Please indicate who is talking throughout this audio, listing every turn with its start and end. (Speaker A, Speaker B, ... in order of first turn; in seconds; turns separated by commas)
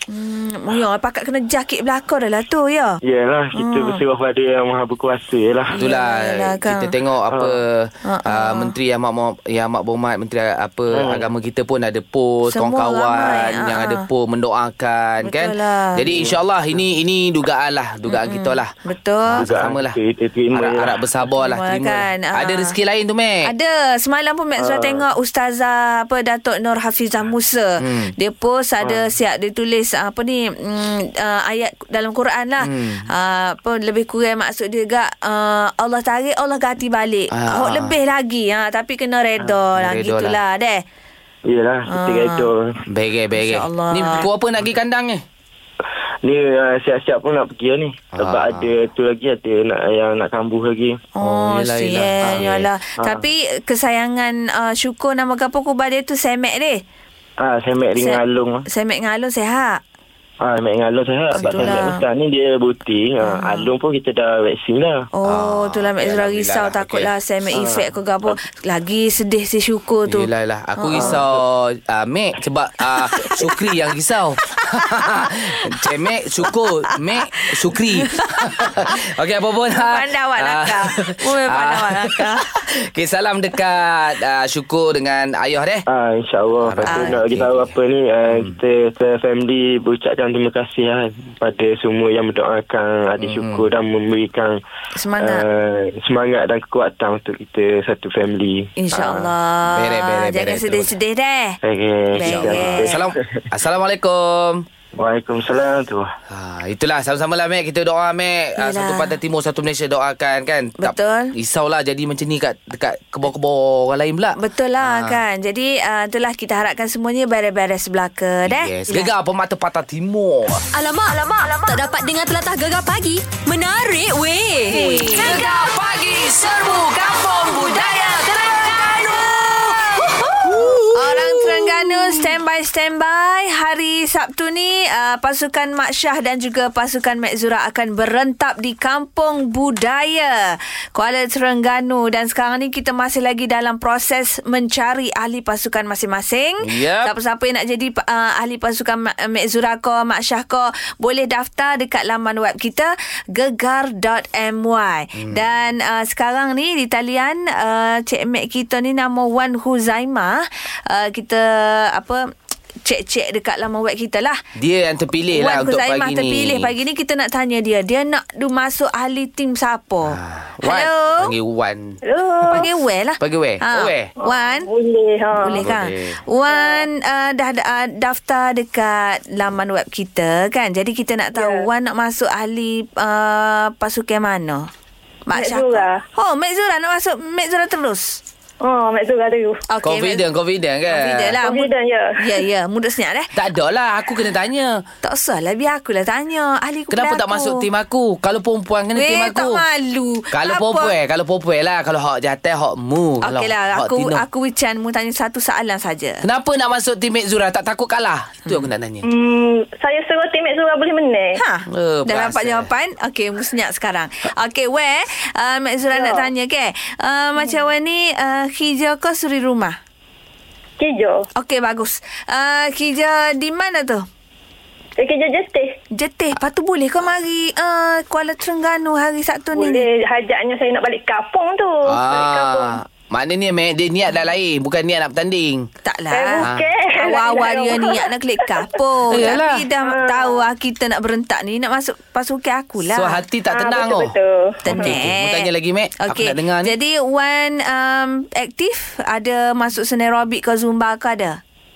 Speaker A: 0.1-3.0, Speaker B: 3.0-5.8, Speaker A: 3.5-4.0, Speaker A: 5.8-6.9, Speaker C: 5.8-18.7, Speaker B: 7.3-7.6, Speaker A: 8.1-8.7, Speaker B: 10.9-11.3, Speaker A: 12.5-14.1, Speaker A: 15.2-16.0, Speaker B: 16.1-16.8, Speaker A: 18.1-19.5, Speaker B: 19.3-21.0, Speaker C: 19.4-20.0, Speaker C: 20.5-23.5, Speaker A: 21.4-22.8, Speaker A: 23.4-40.8, Speaker B: 24.6-25.1, Speaker C: 27.8-28.1, Speaker B: 28.8-29.1, Speaker C: 32.6-33.1, Speaker C: 37.3-38.0, Speaker C: 39.8-40.4, Speaker B: 41.5-42.8, Speaker A: 41.9-42.5, Speaker C: 42.9-45.2, Speaker A: 43.4-44.3, Speaker B: 46.2-51.0, Speaker C: 48.1-48.7, Speaker A: 51.2-56.8, Speaker C: 51.2-52.6, Speaker B: 52.2-53.3, Speaker B: 57.4-58.6, Speaker A: 58.0-59.8, Speaker B: 60.4-65.0, Speaker A: 61.4-62.0, Speaker C: 61.4-61.9, Speaker A: 63.2-63.7, Speaker A: 65.2-71.2, Speaker C: 65.3-67.1, Speaker B: 67.5-67.9, Speaker C: 70.1-85.8, Speaker B: 70.9-71.2, Speaker A: 73.2-73.6, Speaker A: 74.8-75.8, Speaker A: 76.4-79.0, Speaker A: 79.8-82.4, Speaker B: 85.9-94.6, Speaker C: 86.6-87.8, Speaker A: 86.9-87.2, Speaker C: 88.3-88.6, Speaker C: 93.2-93.7, Speaker A: 95.0-95.5, Speaker B: 95.2-99.3, Speaker A: 98.8-101.6, Speaker C: 99.7-101.0, Speaker B: 101.6-103.4, Speaker A: 102.1-102.9, Speaker C: 102.2-104.7, Speaker B: 105.0-106.1, Speaker C: 106.3-115.2, Speaker A: 108.6-109.2, Speaker A: 110.8-111.3, Speaker A: 114.4-119.1, Speaker C: 118.5-120.6, Speaker D: 120.7-125.5, Speaker A: 124.7-125.4, Speaker C: 124.7-132.3, Speaker A: 127.5-128.8, Speaker A: 130.4-140.4, Speaker A: 140.9-162.2, Speaker C: 146.6-147.1, Speaker C: 155.2-155.4, Speaker A: 162.8-164.4, Speaker C: 164.6-166.7, Speaker A: 165.3-171.3, Speaker C: 170.1-172.7, Speaker E: 172.1-172.7, Speaker A: 172.5-174.7, Speaker C: 173.2-174.1, Speaker E: 174.2-175.6, Speaker A: 175.4-184.7, Speaker C: 175.5-176.2, Speaker E: 176.5-176.9, Speaker E: 181.4-181.7, Speaker A: 185.3-188.2, Speaker E: 185.3-186.0, Speaker E: 188.6-189.6, Speaker A: 189.7-190.2, Speaker C: 189.8-191.4, Speaker A: 190.9-193.3, Speaker E: 191.4-192.2, Speaker C: 193.3-194.8, Speaker A: 195.0-197.6, Speaker C: 196.9-199.6, Speaker A: 199.0-200.9, Speaker C: 200.3-204.2, Speaker A: 203.2-206.2, Speaker C: 206.2-209.1, Speaker E: 209.1-211.4, Speaker A: 211.4-219.8, Speaker C: 211.7-212.7, Speaker E: 215.9-216.3, Speaker E: 220.8-221.3, Speaker A: 221.4-224.1, Speaker E: 225.0-225.8, Speaker A: 225.9-229.8, Speaker E: 229.6-232.8, Speaker C: 231.8-235.7, Speaker A: 235.8-243.2, Speaker E: 236.1-238.6, Speaker C: 236.4-236.7, Speaker C: 239.1-239.7, Speaker E: 239.8-240.4, Speaker C: 242.8-244.2, Speaker E: 243.5-245.0, Speaker A: 244.6-245.5, Speaker C: 244.7-246.7, Speaker A: 246.0-251.4